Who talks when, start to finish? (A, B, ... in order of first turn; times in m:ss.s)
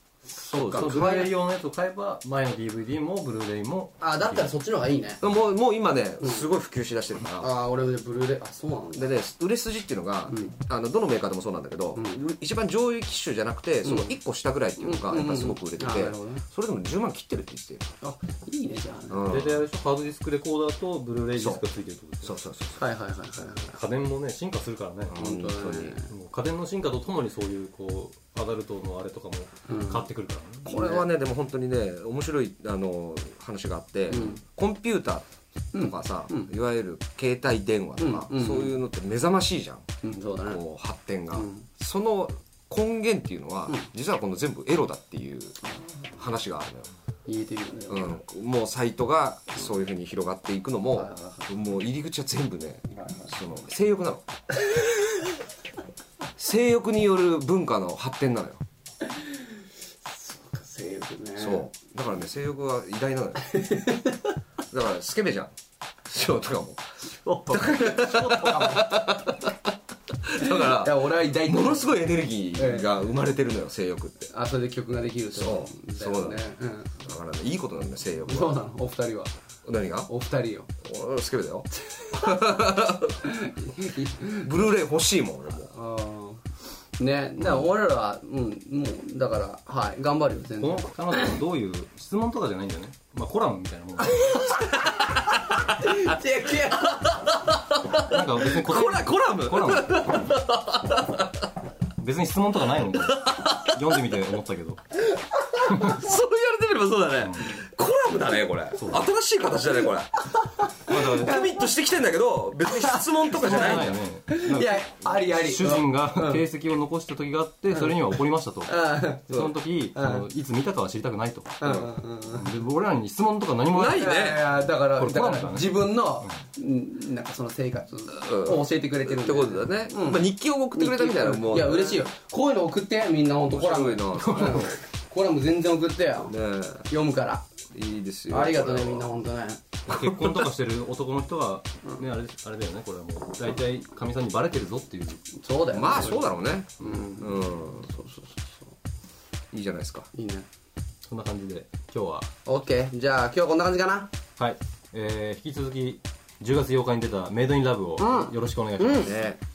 0:00.3-0:01.3 A
0:00.5-0:01.2 B
0:00.6-0:04.5 C
0:04.0-0:05.2 A
0:05.2-0:07.6 B
0:07.4-0:09.2 A
0:09.0-0:17.9 B
0:10.3-0:10.6 A
0:12.0-0:12.2 A
0:13.8-0:14.1 A
0:14.8-0:16.4 A
0:18.0-0:19.4 A
0:19.1-0:19.6 B
0:19.3-0:22.4 C
0:21.4-0:21.6 B
0:22.2-0:22.8 B
0:22.8-0:23.8 A
0:23.5-0:25.2 C
0:25.1-0:26.0 B
0:25.2-0:26.1 A
0:26.0-0:30.7 C
0:29.7-0:30.1 A
0:30.6-0:39.9 B
0:30.7-0:31.0 A
0:34.1-0:34.4 A
0:35.7-0:36.5 A
0:38.0-0:38.8 A
0:40.0-0:40.6 A
0:40.5-0:45.6 B
0:41.3-0:41.6 A
0:46.2-0:46.9 B
0:47.3-0:48.2 A
0:47.9-0:54.3 B
0:51.0-0:51.5 A
0:53.0-0:53.3 A
0:56.4-0:58.6 B
1:00.1-1:01.7 A
1:01.4-1:03.5 B
1:03.5-1:04.3 A
1:04.7-1:05.5 B
1:06.1-1:06.8 B
1:07.2-1:09.1 A
1:07.5-1:14.3 B
1:10.4-1:12.0 A
1:12.6-1:12.9 A
1:14.3-1:17.0 A
1:15.4-1:16.4 B
1:17.0-1:18.6 B
1:18.3-1:19.3 A
1:19.6-1:20.1 B
1:20.1-1:20.7 A
1:20.8-1:23.3 B
1:21.9-1:22.6 A
1:23.2-1:24.5 A
1:24.3-1:25.7 B
1:25.7-1:26.4 A
1:27.0-1:31.4 A
1:30.6-1:34.7 C
1:34.1-1:37.4 A
1:37.5-1:41.4 B
1:37.9-1:40.4 C
1:42.0-1:44.8 C
1:43.0-1:44.1 B
1:45.7-1:46.0 C
1:45.7-1:54.0 B
1:47.2-1:47.6 C
1:48.8-1:49.1 C
1:50.9-1:51.4 A
1:52.8-1:56.4 A
1:53.3-2:06.3 C
1:58.7-2:00.2 A
2:01.6-2:02.5 A
2:03.7-2:04.4 B
2:03.9-2:16.3 A
2:08.1-2:12.1 B
2:13.5-2:14.8 B
2:14.2-2:14.7 C
2:16.3-2:16.9 B
2:16.9-2:17.5 A
2:17.7-2:19.1 B
2:18.3-2:19.6 A
2:19.9-2:25.3 C
2:19.9-2:20.5 B
2:25.4-2:28.7 A
2:25.7-2:27.9 B
2:29.5-2:30.1 B
2:30.1-2:30.5 A
2:31.1-2:32.3 C
2:32.5-2:34.1 A
2:34.4-2:39.2 C
2:38.0-2:39.1 A
2:39.0-2:39.4 B